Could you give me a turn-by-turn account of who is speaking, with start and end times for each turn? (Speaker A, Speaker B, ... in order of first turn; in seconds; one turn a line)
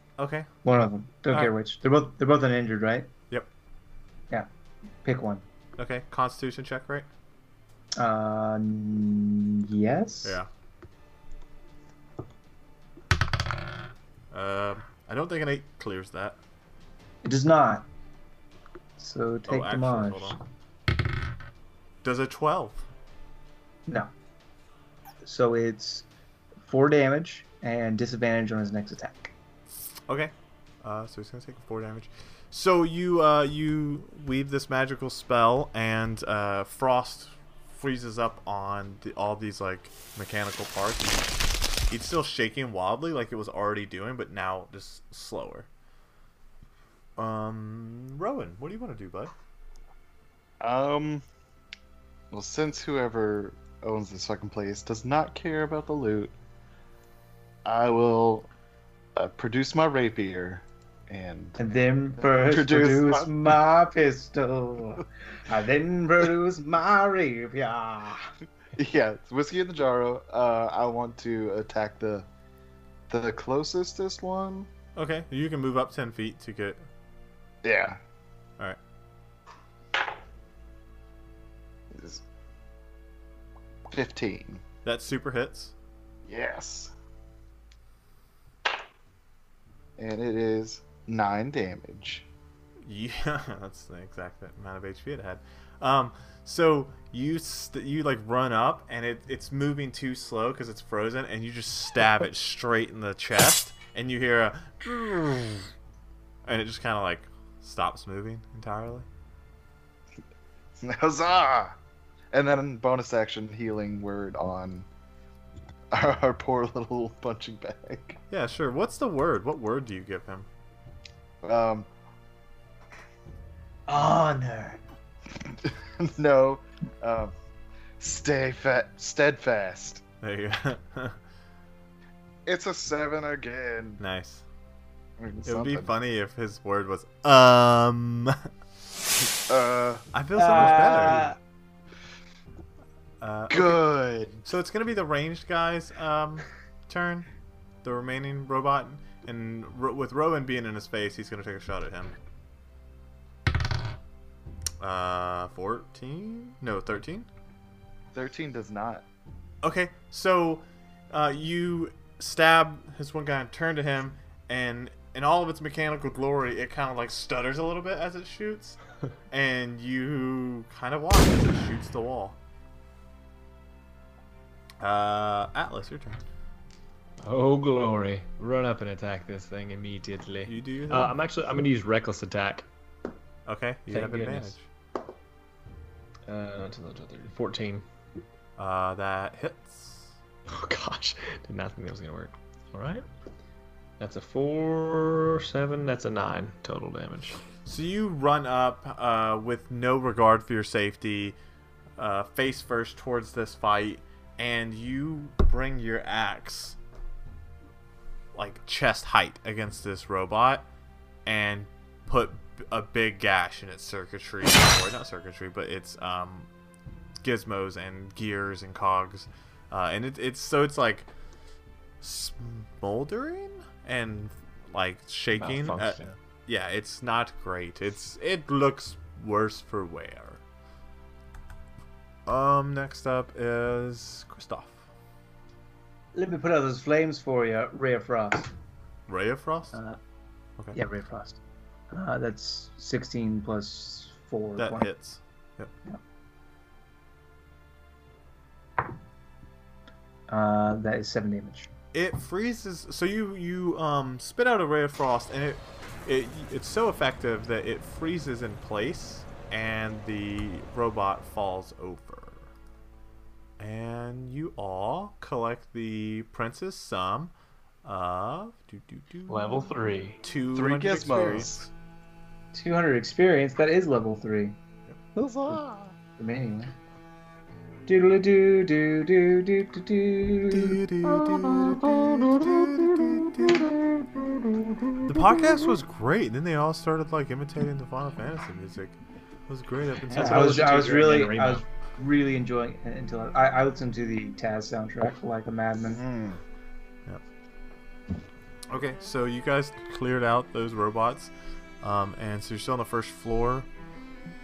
Speaker A: 0.2-0.5
Speaker B: 0.6-3.1
Speaker B: 5.0-5.4
Speaker A: 5.8-7.1
Speaker B: 8.0-10.4
Speaker A: 10.2-10.5
Speaker A: 14.3-16.4
Speaker B: 17.2-17.9
Speaker B: 19.0-20.4
Speaker A: 19.5-20.4
Speaker A: 22.0-22.8
Speaker B: 25.2-26.1
Speaker B: 26.6-29.3
Speaker A: 30.1-41.3
Speaker A: 41.9-45.7
Speaker A: 47.2-49.3
Speaker C: 50.6-51.2
Speaker C: 52.3-56.3
Speaker C: 57.6-58.5
Speaker C: 59.1-61.6
Speaker B: 61.6-68.3
Speaker C: 62.2-63.6
Speaker C: 68.7-72.2
Speaker C: 73.1-74.7
Speaker A: 75.0-76.8
Speaker C: 77.6-78.0
Speaker C: 81.9-82.2
Speaker C: 83.9-84.6
Speaker A: 84.8-85.7
Speaker C: 86.2-86.9
Speaker C: 90.0-92.3
Speaker A: 92.8-105.7
Speaker A: 106.5-109.0
Speaker C: 110.8-111.7
Speaker C: 112.3-114.9
Speaker C: 115.9-118.2
Speaker A: 118.3-120.5
Speaker C: 121.4-121.9
Speaker B: 123.9-124.8
Speaker C: 125.4-127.3
Speaker C: 128.0-130.0
Speaker A: 130.2-131.2
Speaker C: 132.4-134.0
Speaker A: 134.0-134.4
Speaker C: 135.2-135.9
Speaker A: 135.4-138.5
Speaker C: 139.4-140.1
Speaker A: 140.1-141.3
Speaker B: 140.3-141.4
Speaker C: 140.6-141.0
Speaker A: 143.2-143.8
Speaker C: 143.5-144.5
Speaker A: 144.4-147.3
Speaker A: 147.8-152.1
Speaker A: 154.8-157.3
Speaker C: 158.1-159.0
Speaker A: 159.6-168.8
Speaker A: 169.3-172.4
Speaker A: 174.8-176.2
Speaker D: 177.2-182.7
Speaker A: 180.4-181.2
Speaker A: 183.4-184.6
Speaker D: 183.9-184.5
Speaker D: 186.3-187.8
Speaker A: 188.6-190.1
Speaker D: 190.5-193.0
Speaker D: 194.0-197.4
Speaker A: 197.7-201.3
Speaker A: 202.0-206.8
Speaker A: 208.3-210.7
Speaker A: 211.2-216.5
Speaker A: 217.2-221.1
Speaker A: 222.0-230.4
Speaker D: 225.3-226.1
Speaker A: 232.2-234.8
Speaker B: 236.1-238.5
Speaker A: 239.1-239.8
Speaker B: 239.7-240.0
Speaker B: 240.7-241.4
Speaker B: 241.9-244.9
Speaker A: 244.6-245.7
Speaker B: 250.3-251.7
Speaker A: 251.9-262.5
Speaker A: 263.6-269.7
Speaker D: 269.3-270.2
Speaker A: 270.2-271.5
Speaker C: 270.5-271.7
Speaker B: 272.5-274.6
Speaker C: 275.1-275.9
Speaker B: 276.1-276.7
Speaker B: 277.9-280.8
Speaker A: 280.5-283.7
Speaker A: 285.0-289.0
Speaker A: 289.5-290.5
Speaker B: 290.1-296.0
Speaker D: 290.1-291.6
Speaker C: 295.8-296.4
Speaker A: 298.7-303.7